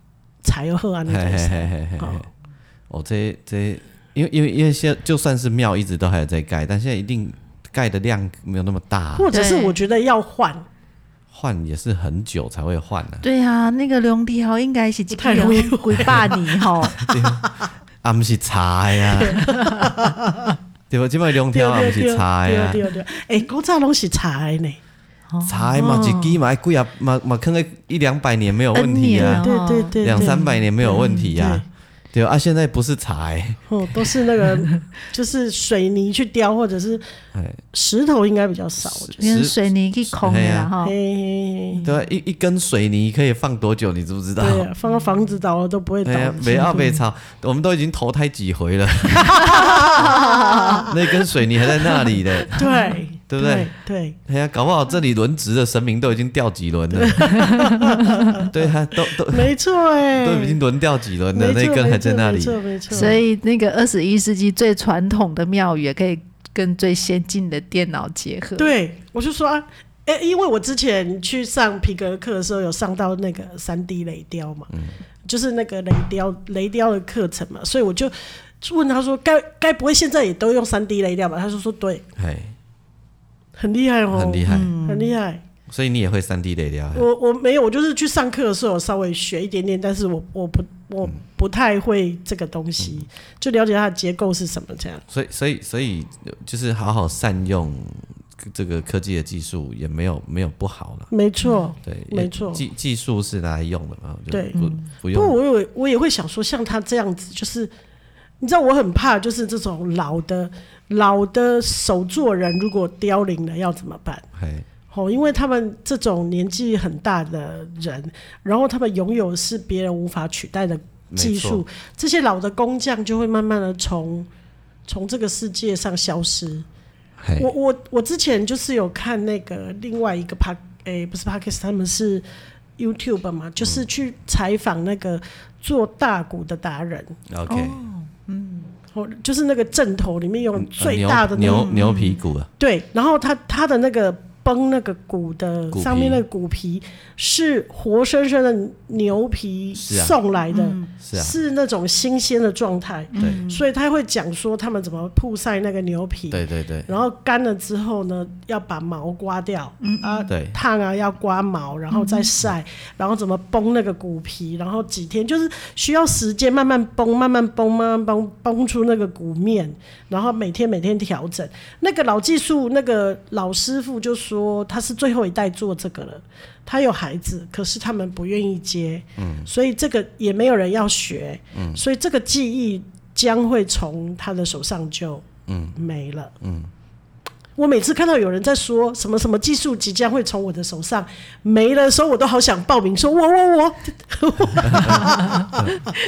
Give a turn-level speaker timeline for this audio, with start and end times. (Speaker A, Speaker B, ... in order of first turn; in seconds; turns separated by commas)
Speaker A: 0.4-2.3, Speaker B: 1.1-2.3, Speaker B: 2.9-9.3, Speaker A: 9.2-10.7, Speaker C: 9.3-9.8, Speaker B: 11.3-13.2, Speaker C: 13.2-17.0, Speaker A: 15.1-17.7, Speaker B: 17.0-19.5, Speaker A: 19.1-20.6, Speaker B: 20.9-22.8, Speaker A: 21.5-24.8, Speaker C: 25.3-25.9, Speaker B: 25.4-29.5, Speaker A: 25.8-26.3, Speaker C: 28.7-31.3, Speaker A: 29.1-31.6, Speaker B: 30.0-33.6, Speaker A: 33.7-37.0, Speaker B: 37.3-37.6, Speaker A: 37.7-39.3, Speaker B: 38.9-39.6, Speaker C: 39.2-41.0, Speaker B: 40.1-40.7, Speaker A: 40.8-41.9, Speaker B: 41.8-44.7, Speaker A: 44.4-47.0, Speaker B: 46.0-50.2, Speaker A: 49.2-50.9, Speaker C: 50.0-50.8, Speaker B: 50.9-52.6, Speaker A: 52.5-54.2, Speaker C: 52.6-52.9, Speaker B: 53.3-53.7, Speaker B: 54.3-57.5, Speaker A: 56.9-58.5, Speaker C: 57.6-57.9, Speaker B: 58.5-59.5, Speaker A: 59.3-60.6, Speaker B: 60.2-63.2, Speaker A: 61.3-63.2, Speaker C: 62.9-68.7, Speaker A: 68.6-74.7, Speaker A: 75.3-82.0, Speaker B: 82.2-82.5, Speaker A: 83.6-85.4, Speaker B: 84.1-84.8, Speaker C: 84.5-85.2, Speaker B: 85.7-87.1, Speaker A: 87.0-95.0, Speaker B: 95.1-101.1, Speaker A: 101.1-102.6, Speaker B: 101.8-105.4, Speaker A: 104.3-107.7, Speaker C: 104.5-104.8, Speaker A: 108.4-114.2, Speaker B: 114.3-114.7, Speaker A: 114.9-124.3, Speaker B: 121.1-121.6, Speaker A: 124.9-126.7, Speaker B: 127.2-127.5, Speaker A: 127.4-132.2, Speaker A: 132.8-137.2, Speaker B: 137.3-137.8, Speaker C: 137.5-138.7, Speaker A: 138.9-141.8, Speaker B: 140.6-142.5, Speaker C: 141.4-142.2, Speaker A: 142.6-186.3, Speaker B: 145.7-146.2, Speaker B: 149.8-150.2, Speaker C: 150.5-150.9, Speaker B: 151.0-151.3, Speaker C: 153.1-153.6, Speaker B: 156.3-156.9, Speaker C: 159.8-160.3, Speaker B: 160.3-160.6, Speaker C: 161.9-162.3, Speaker B: 179.2-179.5, Speaker B: 181.5-181.8, Speaker B: 185.5-185.8, Speaker B: 186.4-186.7, Speaker A: 187.6-195.9, Speaker B: 194.6-195.8